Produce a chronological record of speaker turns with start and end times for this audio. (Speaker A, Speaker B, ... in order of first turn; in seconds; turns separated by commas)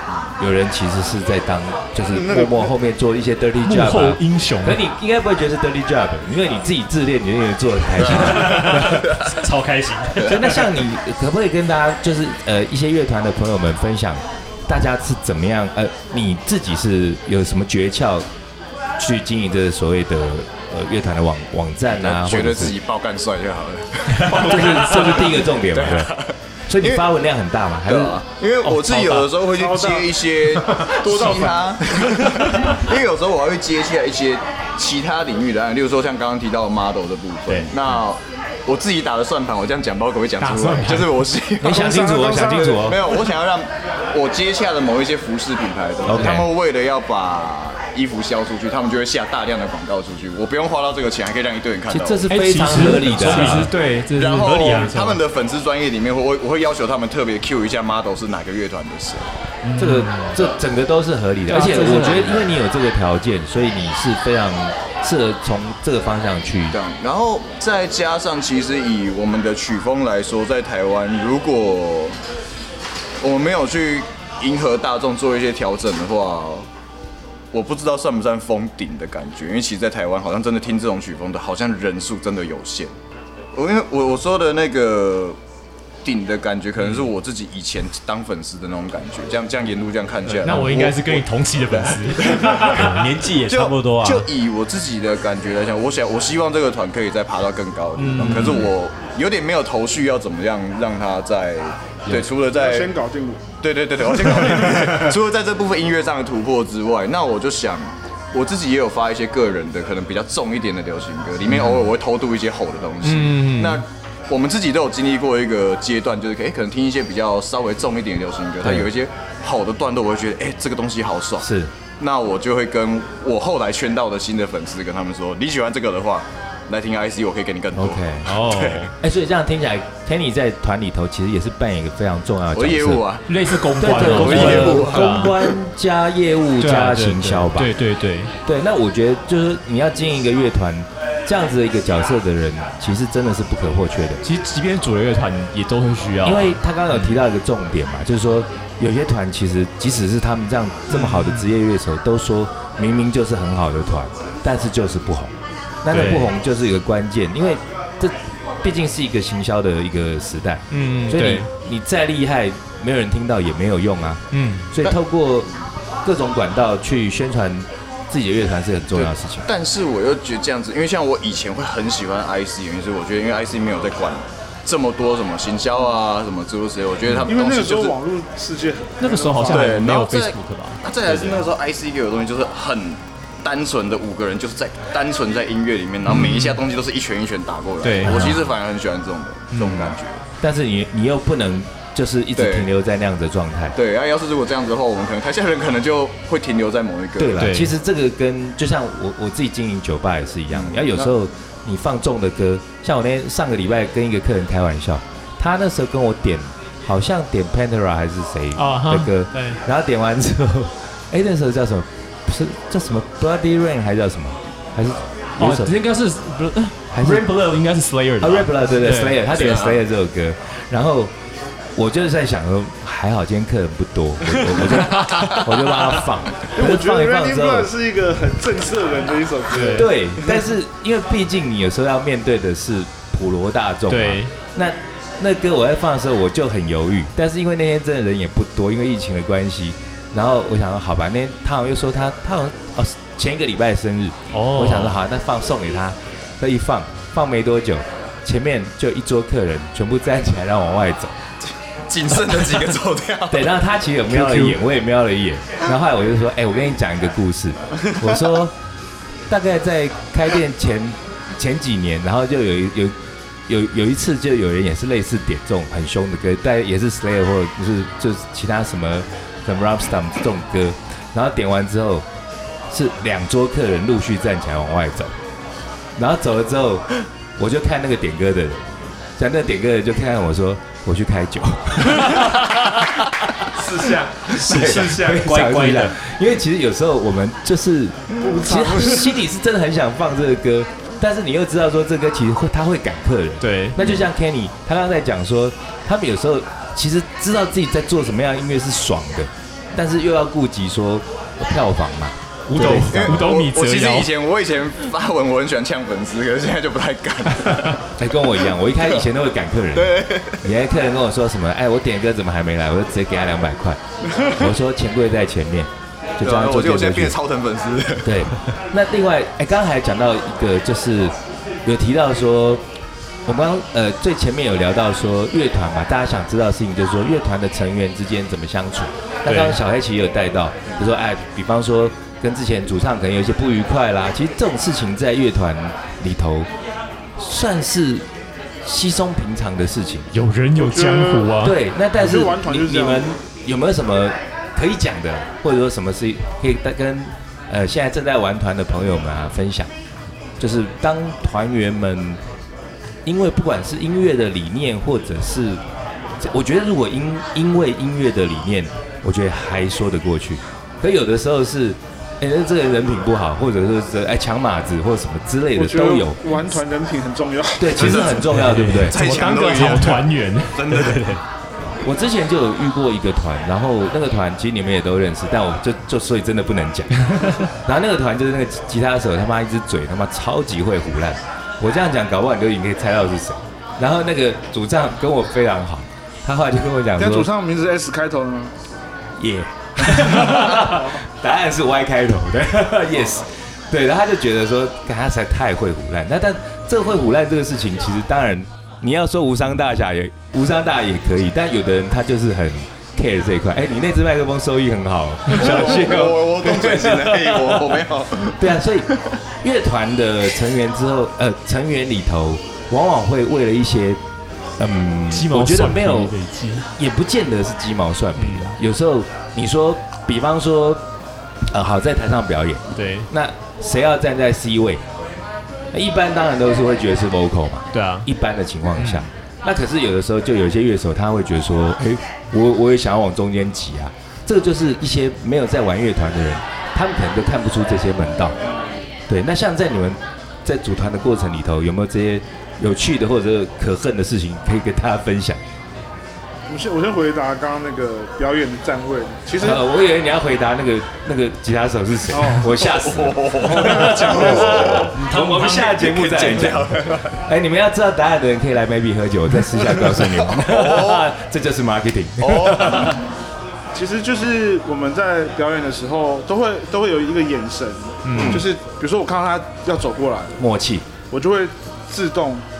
Speaker A: 0.4-9.1, Speaker B: 2.2-2.6, Speaker C: 3.6-4.8, Speaker B: 8.0-9.3, Speaker D: 8.3-10.4, Speaker A: 10.3-18.2, Speaker A: 19.0-22.8, Speaker B: 21.9-27.0, Speaker A: 24.3-26.1, Speaker A: 26.7-28.2, Speaker B: 27.9-41.8, Speaker C: 28.6-29.3, Speaker E: 29.5-32.5, Speaker C: 40.4-41.2, Speaker A: 41.6-43.0, Speaker E: 41.7-42.9, Speaker B: 42.8-52.3, Speaker A: 46.1-46.5, Speaker A: 51.9-53.7, Speaker C: 52.3-55.2, Speaker B: 52.8-59.3, Speaker C: 59.6-60.4, Speaker A: 59.8-66.8, Speaker C: 61.5-62.5, Speaker B: 66.7-72.2, Speaker B: 73.2-76.7, Speaker B: 77.5-82.9, Speaker B: 83.5-85.4, Speaker B: 86.0-102.9, Speaker C: 90.3-93.0, Speaker D: 92.6-94.3, Speaker C: 98.0-98.7, Speaker A: 98.2-98.6, Speaker E: 102.5-103.4, Speaker B: 103.6-121.5, Speaker C: 113.0-113.8, Speaker A: 118.6-118.9, Speaker A: 121.4-121.7, Speaker B: 122.0-128.9, Speaker A: 127.7-128.3, Speaker C: 128.2-128.9, Speaker A: 129.0-133.0, Speaker B: 132.5-135.5, Speaker C: 133.3-135.3, Speaker A: 133.8-137.7, Speaker C: 136.6-138.3, Speaker A: 138.4-144.2, Speaker C: 144.2-147.2, Speaker A: 146.2-165.5, Speaker C: 150.9-151.5, Speaker C: 155.9-156.3, Speaker C: 160.7-161.5, Speaker C: 164.3-164.7, Speaker A: 166.0-169.4, Speaker B: 168.9-177.9, Speaker E: 177.3-179.8, Speaker C: 179.0-181.5, Speaker B: 179.5-190.2, Speaker C: 186.1-186.6, Speaker C: 187.8-188.5, Speaker C: 189.5-189.9, Speaker A: 190.4-193.8, Speaker B: 192.4-192.7, Speaker B: 193.8-197.4, Speaker A: 197.2-215.7, Speaker C: 197.4-197.7, Speaker B: 200.5-201.1, Speaker C: 208.6-209.6, Speaker C: 215.4-219.7, Speaker A: 216.9-217.3, Speaker A: 218.2-221.1, Speaker A: 221.7-227.7, Speaker C: 224.5-225.4, Speaker E: 226.5-230.3, Speaker C: 229.5-229.9, Speaker A: 229.7-251.1, Speaker C: 233.9-234.3, Speaker C: 244.3-245.0, Speaker B: 251.9-253.5, Speaker A: 253.3-258.6, Speaker C: 254.1-254.6, Speaker A: 259.3-262.9, Speaker A: 263.5-272.1, Speaker A: 272.7-275.1, Speaker A: 276.0-282.3, Speaker C: 282.0-282.4, Speaker C: 283.6-284.9, Speaker D: 283.8-285.9, Speaker A: 284.4-303.3, Speaker E: 288.2-289.1, Speaker C: 293.4-294.0, Speaker C: 302.5-304.1, Speaker B: 302.6-307.8, Speaker A: 308.0-313.8, Speaker B: 309.7-310.4, Speaker A: 314.3-317.2, Speaker B: 316.2-318.2, Speaker A: 318.0-322.6, Speaker A: 323.3-336.5, Speaker C: 329.3-329.6, Speaker A: 337.2-338.1, Speaker A: 338.6-340.1, Speaker C: 340.1-341.6, Speaker E: 340.6-341.4, Speaker A: 341.4-349.7, Speaker E: 342.0-343.1, Speaker A: 350.4-352.2, Speaker A: 353.1-355.6, Speaker A: 356.2-366.4, Speaker E: 365.6-367.9, Speaker A: 367.6-369.1, Speaker B: 367.8-371.2, Speaker C: 367.9-371.2, Speaker A: 371.8-387.3, Speaker C: 377.1-377.4, Speaker E: 387.0-388.5, Speaker A: 389.2-408.9, Speaker B: 405.3-408.5, Speaker A: 409.4-414.0, Speaker A: 414.6-416.1, Speaker C: 415.1-416.7, Speaker A: 416.8-420.8, Speaker C: 418.2-418.6, Speaker A: 421.4-424.8, Speaker C: 422.7-423.1, Speaker A: 425.7-438.4, Speaker C: 427.7-428.1, Speaker C: 428.7-429.1, Speaker A: 439.1-445.4, Speaker E: 446.5-449.6, Speaker A: 449.4-463.0, Speaker E: 452.1-452.6, Speaker B: 452.6-457.2, Speaker E: 453.4-454.7, Speaker B: 459.6-461.1, Speaker B: 462.2-463.0, Speaker E: 463.7-470.4, Speaker C: 468.1-468.4, Speaker B: 468.1-468.4, Speaker A: 470.4-470.9, Speaker E: 471.1-472.4